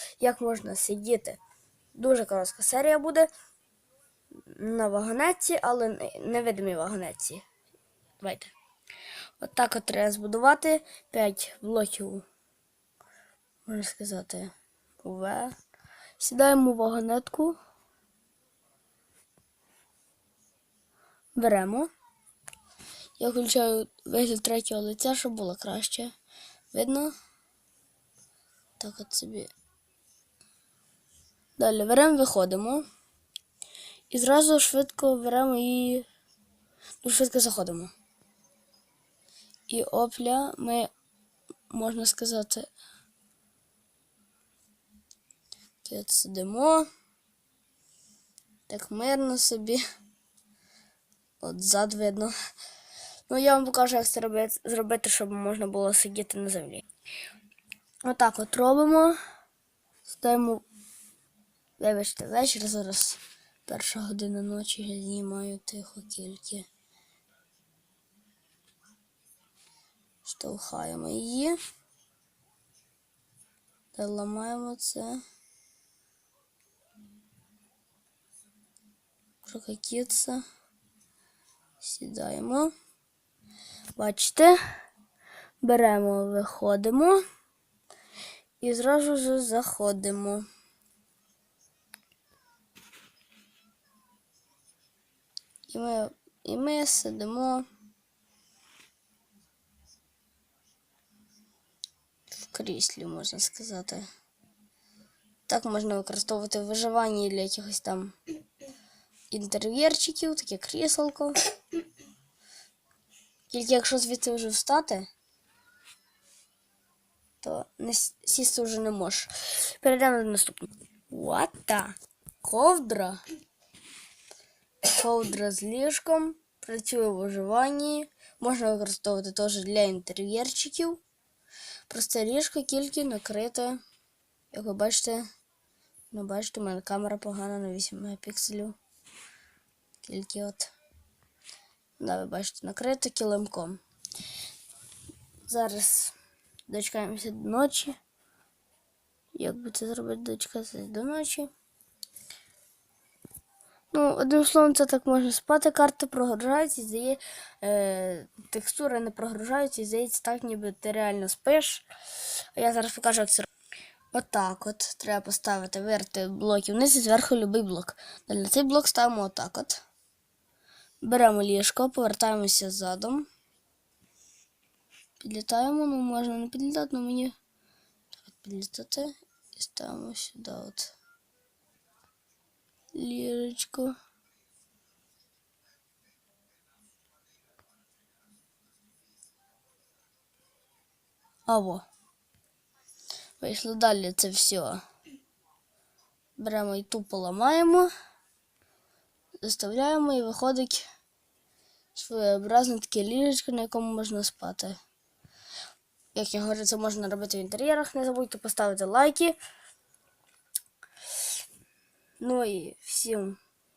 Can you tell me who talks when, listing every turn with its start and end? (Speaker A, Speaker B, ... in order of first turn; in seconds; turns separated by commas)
Speaker A: 0.2-1.4, Speaker A: 1.9-3.3, Speaker A: 4.5-7.4, Speaker A: 8.2-8.5, Speaker A: 9.4-12.2, Speaker A: 13.7-14.5, Speaker A: 15.0-15.5, Speaker A: 16.2-17.6, Speaker A: 21.3-21.9, Speaker A: 23.2-26.1, Speaker A: 26.7-27.1, Speaker A: 28.8-29.5, Speaker A: 31.6-32.8, Speaker A: 34.1-36.0, Speaker A: 37.0-37.9, Speaker A: 39.7-40.9, Speaker A: 41.7-42.7, Speaker A: 45.8-46.9, Speaker A: 48.7-49.8, Speaker A: 51.4-52.3, Speaker A: 53.3-56.8, Speaker A: 58.0-59.2, Speaker A: 60.0-60.6, Speaker A: 61.8-66.7, Speaker A: 70.2-71.6, Speaker A: 73.9-75.2, Speaker A: 79.4-80.4, Speaker A: 81.8-82.7, Speaker A: 84.0-84.6, Speaker A: 85.6-87.2, Speaker A: 88.6-90.5, Speaker A: 95.7-97.6, Speaker A: 102.4-104.1, Speaker A: 105.5-108.1, Speaker A: 109.3-111.4, Speaker A: 113.5-115.1, Speaker A: 117.4-123.2, Speaker A: 124.8-131.0, Speaker A: 131.9-133.8, Speaker A: 134.5-135.2, Speaker A: 136.1-138.8, Speaker A: 140.0-140.7, Speaker A: 142.0-143.8, Speaker A: 145.4-146.1, Speaker A: 146.7-147.9, Speaker A: 149.3-151.5, Speaker A: 153.9-161.8, Speaker A: 162.5-163.5, Speaker A: 164.1-169.8, Speaker A: 171.0-173.3, Speaker A: 175.2-177.3, Speaker A: 178.2-180.9, Speaker A: 182.9-183.9, Speaker A: 191.5-191.8, Speaker A: 193.4-194.8, Speaker A: 196.4-197.9, Speaker A: 199.4-200.8, Speaker A: 201.9-204.8, Speaker A: 206.1-209.4, Speaker A: 212.2-213.4